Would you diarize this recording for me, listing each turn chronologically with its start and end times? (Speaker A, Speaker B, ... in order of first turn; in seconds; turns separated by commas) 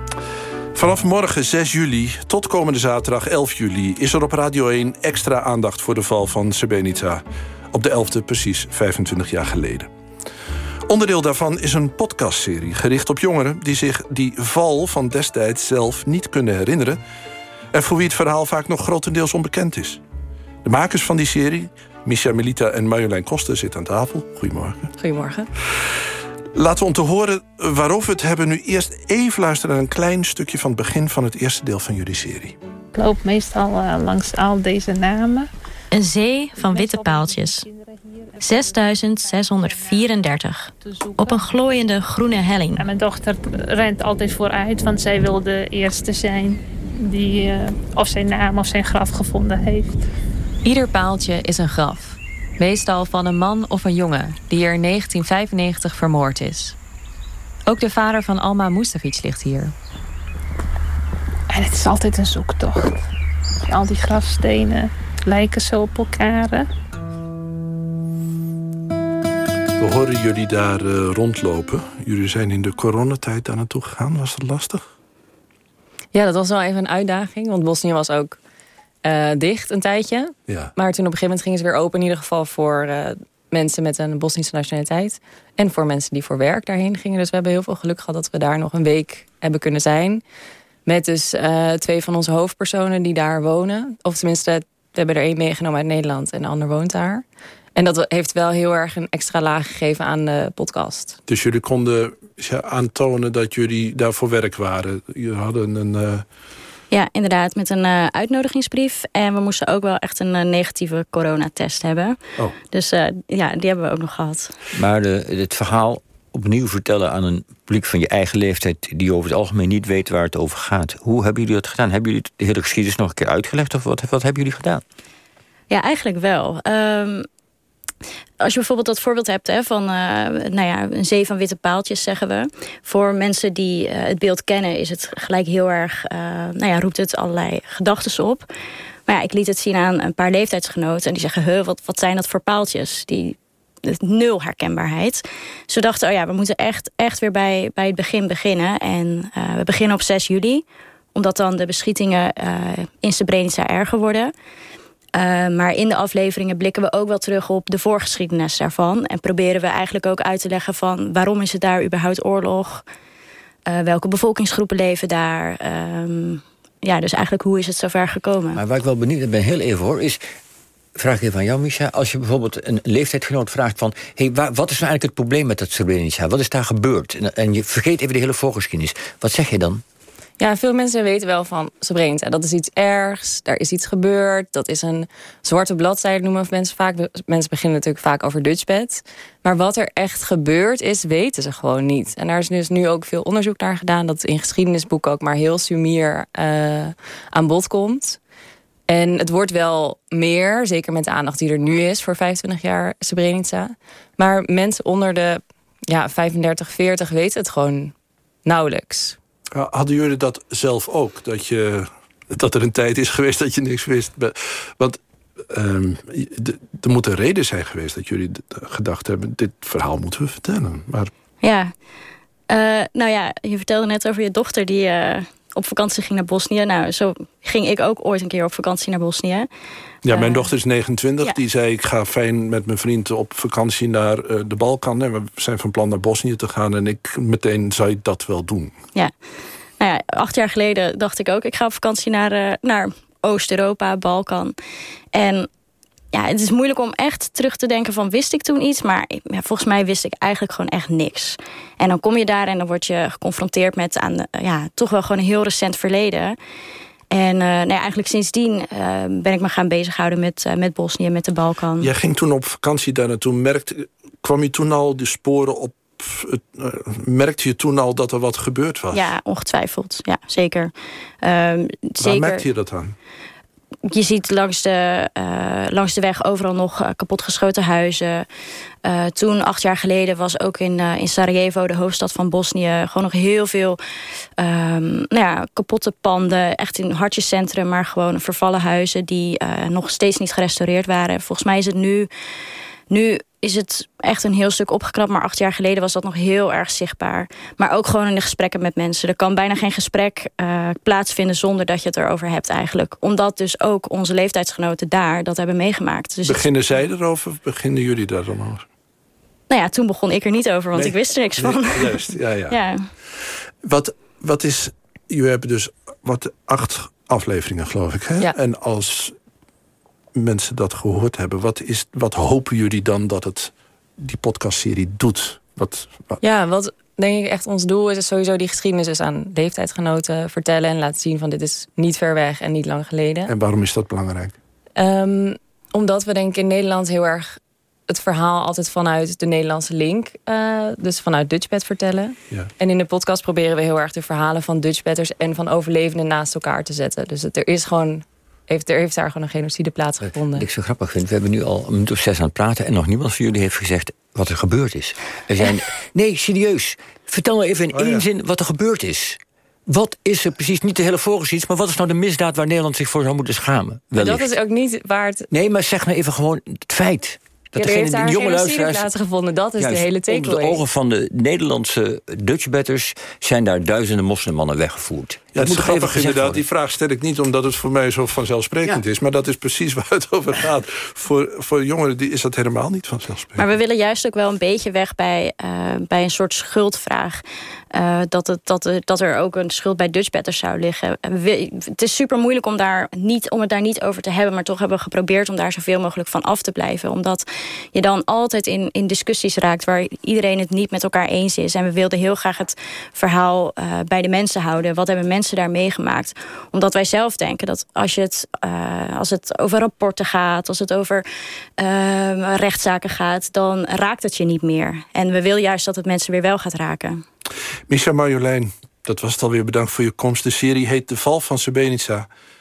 Speaker A: 0.7-9.9, Speaker A: 10.9-17.0, Speaker A: 17.7-20.0, Speaker A: 20.6-24.9, Speaker B: 25.0-25.5, Speaker A: 26.5-32.5, Speaker C: 32.9-35.5, Speaker D: 35.9-37.6, Speaker C: 36.6-40.2, Speaker D: 38.4-42.8, Speaker C: 40.8-41.5, Speaker C: 42.8-49.9, Speaker B: 50.6-56.7, Speaker B: 57.7-59.7, Speaker C: 61.5-63.0, Speaker C: 63.6-66.7, Speaker A: 69.8-74.8, Speaker B: 76.1-78.4, Speaker B: 79.0-90.2, Speaker B: 90.8-97.2, Speaker B: 97.8-101.2, Speaker A: 101.3-106.2, Speaker D: 106.9-112.2, Speaker D: 112.7-114.5, Speaker E: 114.7-124.8, Speaker D: 125.7-127.2, Speaker D: 128.4-138.4, Speaker D: 139.1-154.3, Speaker D: 155.1-162.8, Speaker D: 163.7-168.6, Speaker E: 168.5-170.2, Speaker E: 170.9-179.8, Speaker B: 180.4-198.2, Speaker B: 198.9-207.9, Speaker B: 208.4-209.2, Speaker A: 209.5-221.1, Speaker D: 221.4-221.7, Speaker D: 222.5-229.5, Speaker A: 230.0-238.7, Speaker D: 230.1-230.5, Speaker D: 239.8-244.5, Speaker D: 245.1-245.5, Speaker D: 246.1-256.4, Speaker D: 257.1-261.9, Speaker A: 261.8-269.1, Speaker D: 268.9-272.4, Speaker A: 272.0-272.9, Speaker D: 273.9-278.2, Speaker D: 278.8-283.8, Speaker D: 284.4-292.1, Speaker D: 292.9-306.5, Speaker A: 306.2-308.6, Speaker D: 309.5-312.8, Speaker A: 310.7-312.6, Speaker A: 313.6-319.1, Speaker A: 320.1-326.2, Speaker B: 326.2-333.3, Speaker A: 333.3-334.3, Speaker B: 334.8-337.4, Speaker B: 337.9-350.4, Speaker E: 350.0-364.3, Speaker A: 357.7-358.1, Speaker B: 363.9-365.3, Speaker E: 365.3-368.9, Speaker B: 367.5-370.6, Speaker E: 369.6-376.4, Speaker A: 375.3-383.4, Speaker D: 383.4-387.2, Speaker D: 387.7-411.0, Speaker D: 411.6-417.0, Speaker A: 417.7-422.1